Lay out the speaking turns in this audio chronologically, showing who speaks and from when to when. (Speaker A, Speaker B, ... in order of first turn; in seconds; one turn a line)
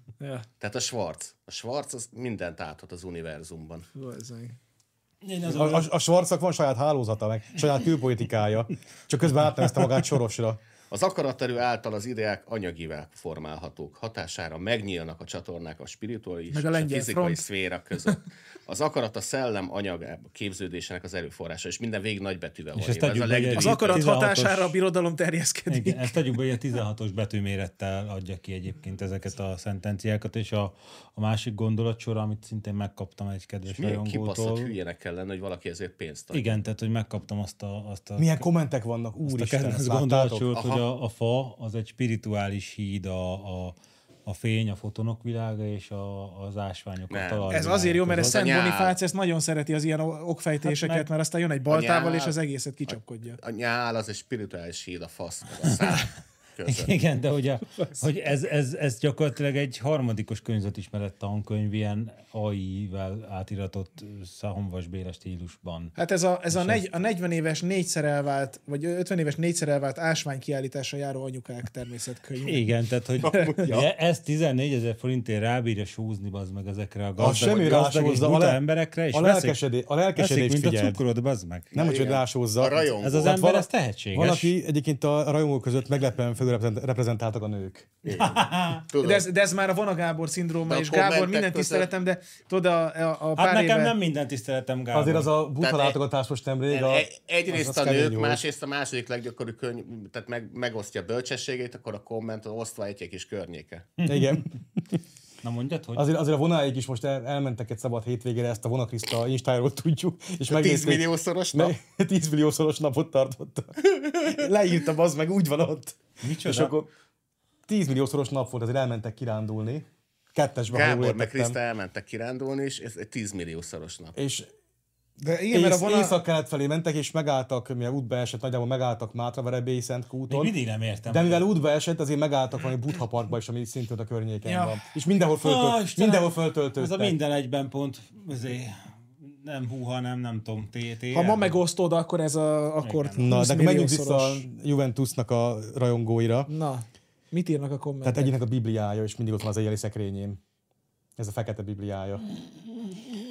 Speaker A: 0.2-0.5
Speaker B: 0.6-3.9
Speaker A: 3.9-4.6
Speaker C: 5.2-5.9
Speaker D: 5.5-10.6
Speaker B: 10.9-24.1
Speaker A: 16.5-17.4
Speaker C: 22.7-24.7
Speaker A: 23.6-26.1
Speaker C: 25.7-34.7
Speaker B: 33.7-36.6
Speaker C: 36.3-38.5
Speaker D: 38.2-40.5
Speaker C: 39.2-48.4
Speaker B: 40.5-40.9
Speaker B: 47.1-47.5
Speaker A: 47.5-53.4
Speaker B: 48.1-49.0
Speaker C: 50.6-51.1
Speaker B: 51.7-56.9
Speaker C: 55.7-56.0
Speaker C: 56.6-66.0
Speaker A: 66.0-72.7
Speaker C: 66.5-66.9
Speaker C: 72.4-79.6
Speaker A: 73.2-73.7
Speaker D: 77.2-81.0
Speaker C: 80.2-81.7
Speaker B: 81.7-83.4
Speaker D: 81.7-87.9
Speaker C: 83.0-84.5
Speaker B: 88.0-89.3
Speaker C: 88.1-88.8
Speaker A: 89.0-93.9
Speaker B: 90.7-91.9
Speaker C: 93.4-95.3
Speaker D: 94.9-98.4
Speaker B: 95.6-96.0
Speaker B: 96.7-103.9
Speaker C: 104.0-104.4
Speaker D: 104.0-104.5
Speaker C: 105.4-106.1
Speaker D: 106.0-116.9
Speaker B: 110.5-111.7
Speaker C: 116.2-116.7
Speaker D: 117.7-121.6
Speaker B: 120.7-124.2
Speaker D: 124.2-124.5
Speaker A: 125.2-126.2
Speaker D: 125.5-130.5
Speaker C: 130.3-131.4
Speaker D: 131.1-137.2
Speaker A: 134.4-134.8
Speaker C: 135.4-141.6
Speaker A: 141.1-144.4
Speaker C: 142.8-143.3
Speaker D: 143.2-146.5
Speaker A: 146.5-148.3
Speaker D: 148.0-150.4
Speaker D: 151.2-152.2